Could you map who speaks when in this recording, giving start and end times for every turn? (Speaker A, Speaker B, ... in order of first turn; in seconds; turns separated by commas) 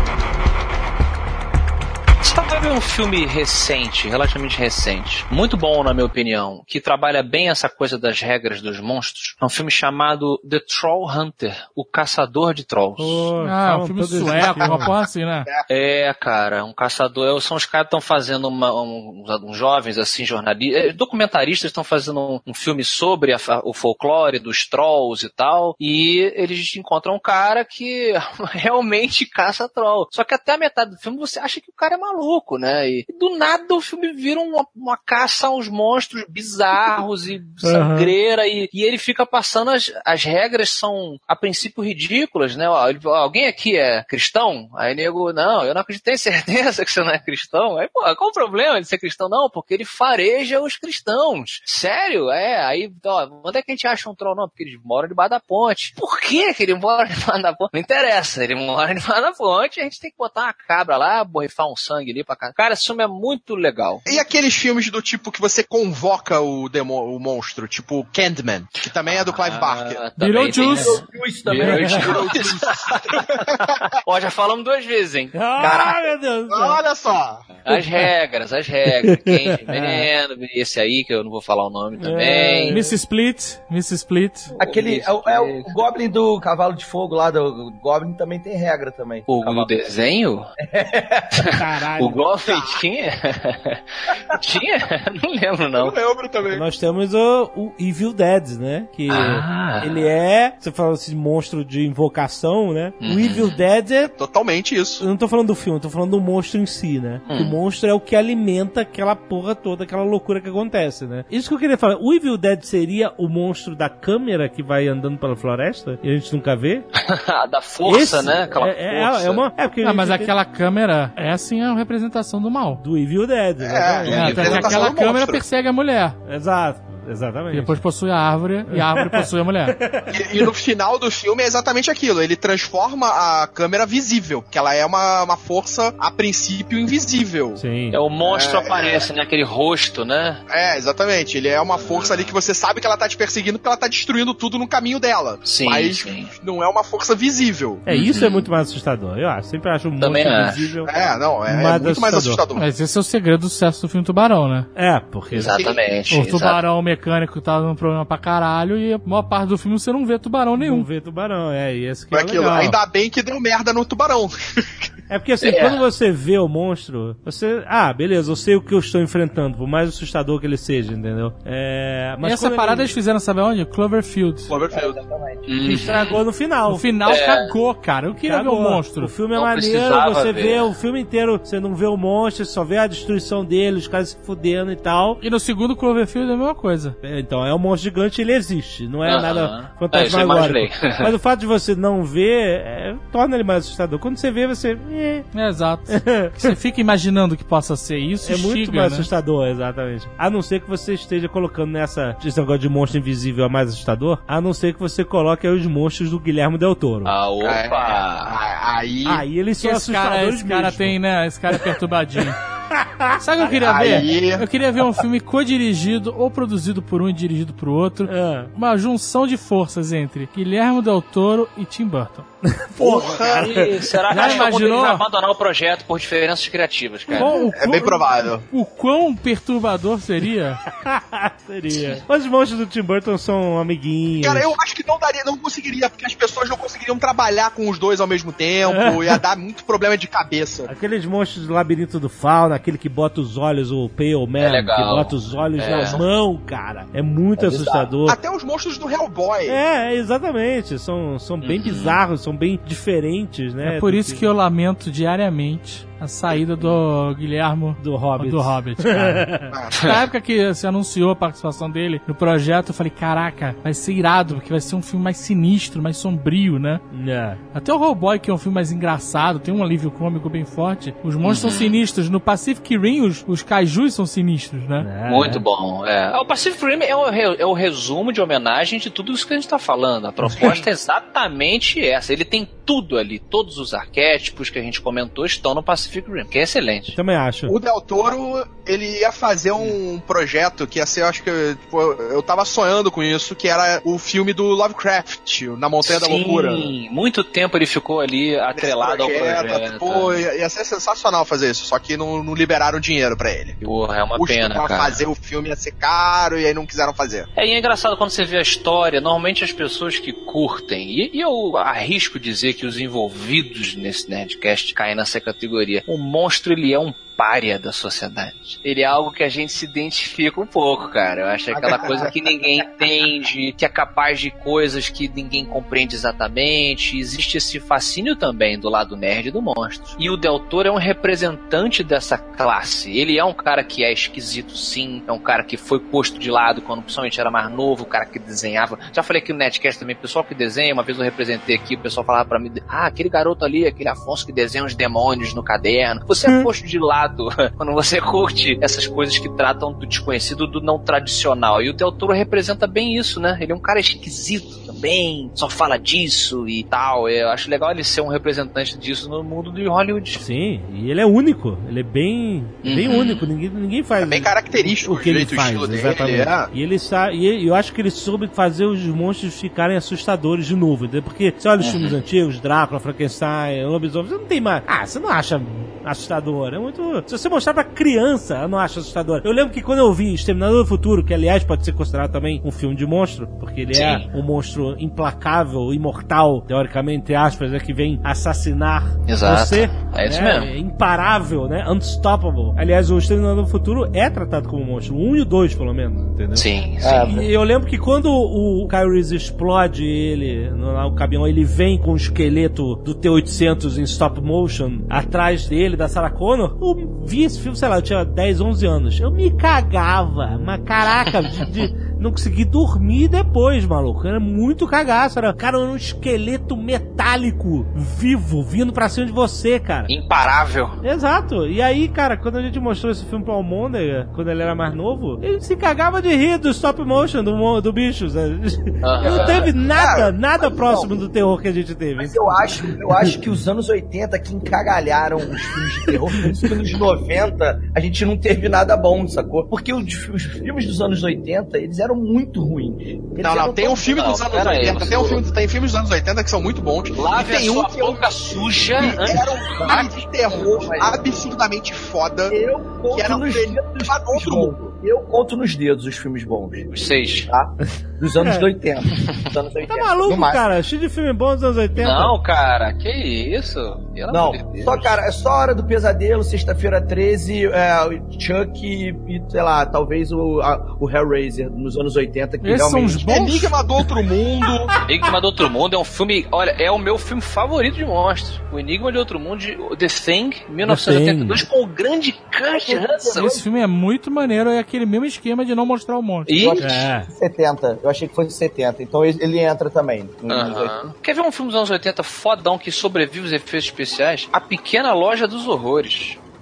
Speaker A: 2.2-13.3, Speaker B: 13.0-14.9, Speaker C: 13.4-15.5, Speaker A: 15.7-64.0, Speaker B: 37.6-38.1, Speaker D: 64.0-70.0, Speaker A: 69.0-73.0, Speaker C: 70.2-71.0, Speaker E: 70.6-72.8, Speaker B: 71.6-72.0, Speaker D: 72.0-73.8, Speaker A: 73.5-76.0, Speaker B: 75.3-76.8, Speaker D: 76.5-77.6, Speaker A: 77.6-82.8, Speaker B: 77.7-78.0, Speaker B: 79.0-80.1, Speaker B: 82.0-83.0, Speaker C: 82.7-84.5, Speaker E: 84.6-89.7, Speaker A: 84.6-85.7, Speaker A: 89.3-90.5, Speaker E: 90.6-91.5, Speaker A: 91.4-96.0, Speaker B: 91.5-92.2, Speaker D: 95.7-96.6, Speaker B: 96.5-104.1, Speaker A: 99.1-100.0, Speaker A: 103.0-103.6, Speaker D: 104.1-105.0, Speaker B: 105.0-116.8, Speaker A: 107.3-107.5, Speaker A: 117.0-119.4, Speaker B: 117.8-120.3, Speaker C: 119.8-122.8, Speaker B: 122.8-124.8, Speaker D: 123.6-125.4, Speaker C: 124.1-126.2, Speaker B: 126.2-127.8, Speaker C: 127.5-129.8, Speaker B: 128.7-130.4, Speaker D: 130.1-137.6, Speaker B: 137.6-138.0, Speaker A: 137.9-140.4, Speaker D: 138.2-139.1, Speaker D: 140.5-147.8, Speaker A: 141.7-142.4, Speaker A: 145.4-146.3, Speaker B: 147.8-152.4, Speaker A: 147.9-148.5, Speaker A: 150.0-150.7, Speaker D: 150.8-152.6, Speaker C: 152.6-154.7, Speaker B: 154.8-155.6, Speaker A: 155.3-156.6, Speaker D: 155.5-155.8, Speaker C: 156.1-160.8, Speaker B: 160.6-162.8, Speaker D: 162.1-164.9, Speaker B: 165.1-172.9, Speaker A: 165.4-165.8, Speaker C: 172.2-174.5, Speaker D: 174.5-175.0, Speaker E: 174.7-175.5, Speaker A: 175.5-176.2, Speaker B: 175.6-176.9, Speaker C: 176.7-179.1, Speaker A: 177.1-177.5, Speaker B: 178.2-185.2, Speaker A: 179.3-180.7, Speaker C: 185.2-186.9, Speaker B: 187.0-195.3, Speaker A: 189.0-191.1, Speaker C: 195.3-199.1, Speaker B: 195.9-196.5, Speaker B: 198.2-207.1, Speaker A: 207.1-208.3, Speaker D: 207.4-209.2, Speaker B: 209.1-210.9, Speaker C: 209.6-212.4, Speaker B: 212.7-214.0, Speaker C: 213.2-222.2, Speaker D: 213.6-214.5, Speaker B: 218.1-218.5, Speaker B: 222.4-223.8, Speaker D: 222.8-223.6, Speaker A: 223.2-227.4, Speaker C: 224.1-225.0, Speaker C: 227.1-230.6, Speaker D: 227.5-228.4, Speaker B: 230.8-234.5, Speaker A: 231.7-232.0, Speaker D: 234.2-240.7, Speaker B: 238.7-239.2, Speaker B: 240.7-248.2, Speaker A: 244.4-246.0, Speaker E: 247.4-247.9, Speaker D: 248.0-249.6, Speaker B: 249.5-254.3, Speaker A: 251.4-252.0, Speaker C: 253.6-266.8, Speaker B: 257.8-259.5, Speaker D: 259.5-259.9, Speaker B: 266.9-267.4, Speaker C: 267.5-274.9, Speaker A: 271.2-271.8, Speaker B: 274.8-275.4, Speaker A: 275.1-287.0, Speaker B: 280.2-280.6, Speaker B: 286.9-287.5, Speaker D: 287.5-296.7, Speaker A: 295.8-300.2, Speaker D: 298.5-303.6, Speaker A: 303.6-305.0, Speaker D: 304.2-307.3, Speaker A: 307.3-360.2, Speaker E: 321.5-322.6, Speaker D: 321.7-322.1, Speaker B: 360.1-419.9, Speaker A: 362.6-363.3, Speaker D: 364.0-366.5, Speaker A: 371.6-372.0, Speaker A: 383.7-384.1, Speaker A: 389.1-390.5, Speaker A: 396.3-397.1, Speaker E: 396.8-397.3, Speaker A: 419.9-420.8, Speaker B: 420.8-433.1, Speaker A: 428.8-429.5, Speaker E: 429.0-429.5, Speaker D: 429.7-430.2, Speaker E: 430.4-431.0, Speaker E: 432.0-445.2, Speaker D: 443.2-447.9, Speaker A: 443.9-445.2, Speaker A: 446.9-449.3, Speaker E: 447.7-451.3, Speaker D: 448.8-452.3, Speaker E: 452.3-456.7, Speaker D: 452.9-454.8, Speaker A: 456.7-457.3, Speaker E: 457.2-460.5, Speaker B: 458.1-458.5, Speaker A: 458.9-459.2, Speaker B: 459.6-462.1, Speaker A: 461.8-465.0, Speaker E: 464.1-473.3, Speaker C: 472.4-473.5, Speaker D: 473.1-474.7, Speaker A: 474.8-483.4, Speaker B: 480.6-481.4, Speaker E: 482.6-483.4, Speaker C: 483.2-486.3, Speaker A: 486.3-486.7, Speaker E: 486.4-490.8, Speaker B: 486.6-487.1, Speaker A: 490.3-496.2